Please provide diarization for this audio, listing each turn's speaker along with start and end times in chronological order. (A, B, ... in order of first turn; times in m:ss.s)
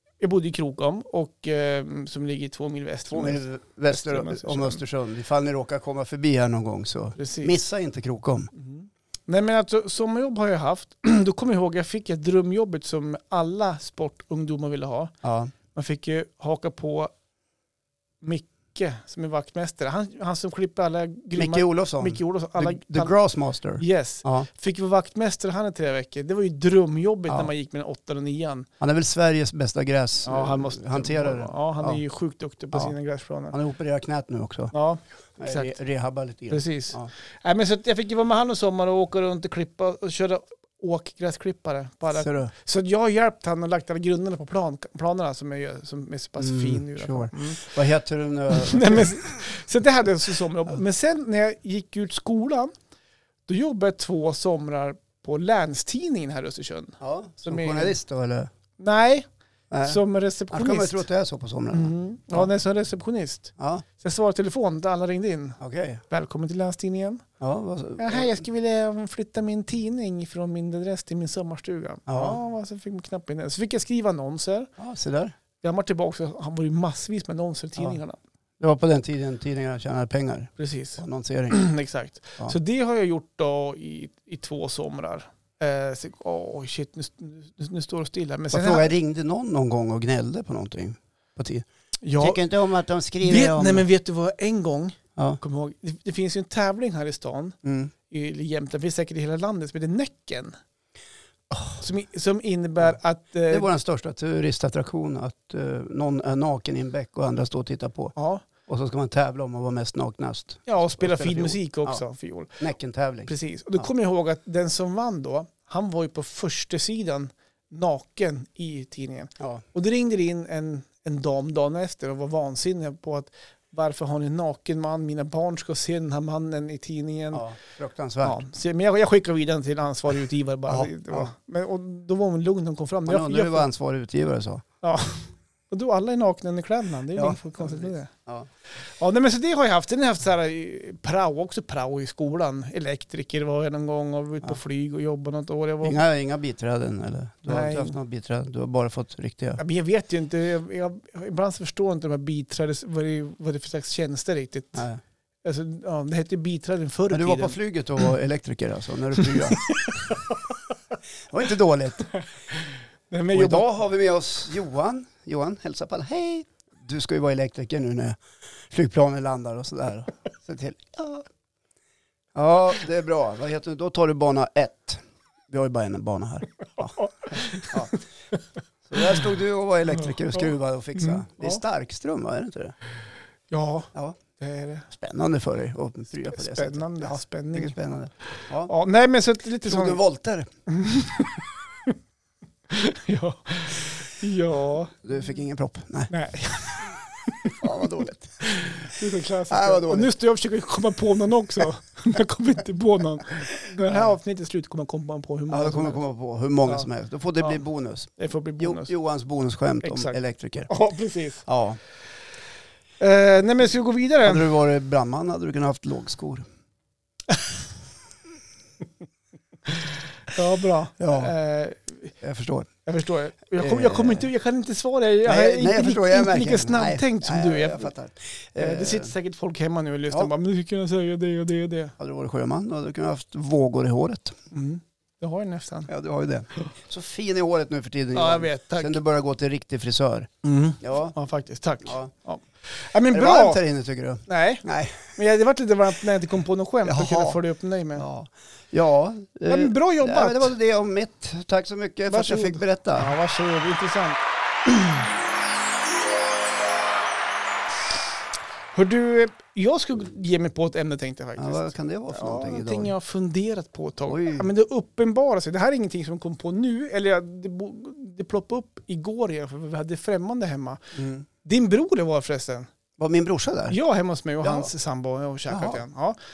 0:00.2-0:04.8 A
0:03.1-0:08.5 B
0:07.2-0:07.5 A
0:08.6-0:15.1 A
0:15.2-0:15.5 B
0:15.7-0:17.1 A
0:18.2-0:23.1 A
0:21.4-0:24.5 B
0:23.8-0:28.7 A
0:28.8-0:32.0 B
0:30.2-0:33.6 A
0:33.5-0:34.7 B
0:34.7-0:35.7 A
0:35.4-0:37.1 B
0:36.5-0:47.7 A
0:42.2-0:42.5 B
0:46.4-0:49.4 B
0:48.5-0:52.7 A
0:53.5-0:58.0 A
0:57.0-0:58.5 B
0:58.8-0:59.3 A
0:59.7-1:00.0 B
0:59.8-1:01.1 A
1:00.5-1:02.5 B
1:01.7-1:05.6 A
1:03.6-1:03.8 B
1:05.6-1:06.0 B
1:06.1-1:07.2 A
1:07.4-1:08.4 B
1:08.0-1:14.7 A
1:12.1-1:12.4 B
1:14.8-1:15.4 B
1:15.6-1:18.2 A
1:18.6-1:21.6 B
1:20.6-1:28.9 A
1:28.5-1:33.8 B
1:32.0-1:32.4 A
1:33.2-1:37.6 A
1:37.6-1:37.9 B
1:38.1-1:40.6 A
1:41.5-1:41.8 B
1:41.8-1:43.7 A
1:43.5-1:52.0 B
1:48.2-1:48.4 A
1:50.7-1:52.6 A
1:52.6-1:53.9 B
1:53.3-2:07.4 A
1:59.4-1:59.6 B
2:07.3-2:08.4 B
2:08.2-2:13.7 A
2:10.7-2:11.3 B
2:13.1-2:14.6 B
2:14.8-2:18.1 A
2:17.2-2:18.5 B
2:18.8-2:26.0 A
2:25.8-2:29.6 B
2:27.5-2:28.0 A
2:29.6-2:34.8 A
2:34.8-2:35.0 B
2:35.4-2:37.6 A
2:37.1-2:40.0 B
2:39.2-2:40.6 A
2:41.3-2:42.1 B
2:42.1-2:43.7 A
2:43.3-2:48.2 B
2:48.7-2:51.2 B
2:52.4-2:58.0 B
2:56.8-2:57.8 A
2:58.9-3:02.8 B
3:00.0-3:01.6 A
3:03.5-3:04.9 A
3:04.9-3:08.7 B
3:06.3-3:07.8 A
3:08.7-3:10.0 A
3:09.6-3:10.5 B
3:10.7-3:12.0 A
3:12.7-3:15.0 A
3:15.0-3:16.1 B
3:16.1-3:17.9 A
3:17.4-3:19.0 B
3:18.4-3:26.0 A
3:19.5-3:20.1 B
3:23.9-3:24.1 B
3:25.5-3:30.7 B
3:28.2-3:28.9 A
3:29.8-3:31.4 A
3:31.5-3:31.8 B
3:33.0-3:34.5 A
3:34.2-3:36.5 B
3:39.7-3:42.1 A
3:41.0-3:41.3 B
3:42.2-3:42.7 B
3:42.9-3:47.9 A
3:43.6-3:44.3 B
3:45.2-3:49.1 B
3:48.6-3:52.0 A
3:52.0-3:54.4 B
3:54.5-3:55.9 A
3:55.9-4:01.2 B
3:58.1-3:59.0 A
4:00.4-4:03.6 A
4:01.8-4:02.1 B
4:03.1-4:05.2 B
4:04.3-4:08.1 A
4:06.8-4:07.4 B
4:08.0-4:13.1 B
4:09.5-4:10.5 A
4:12.1-4:15.1 A
4:18.7-4:30.8 A
4:21.4-4:22.9 B
4:24.1-4:24.5 B
4:31.0-4:31.3 B
4:31.4-4:32.7 A
4:33.0-4:33.8 B
4:33.7-4:36.2 A
4:34.4-4:34.7 B
4:35.5-4:35.8 B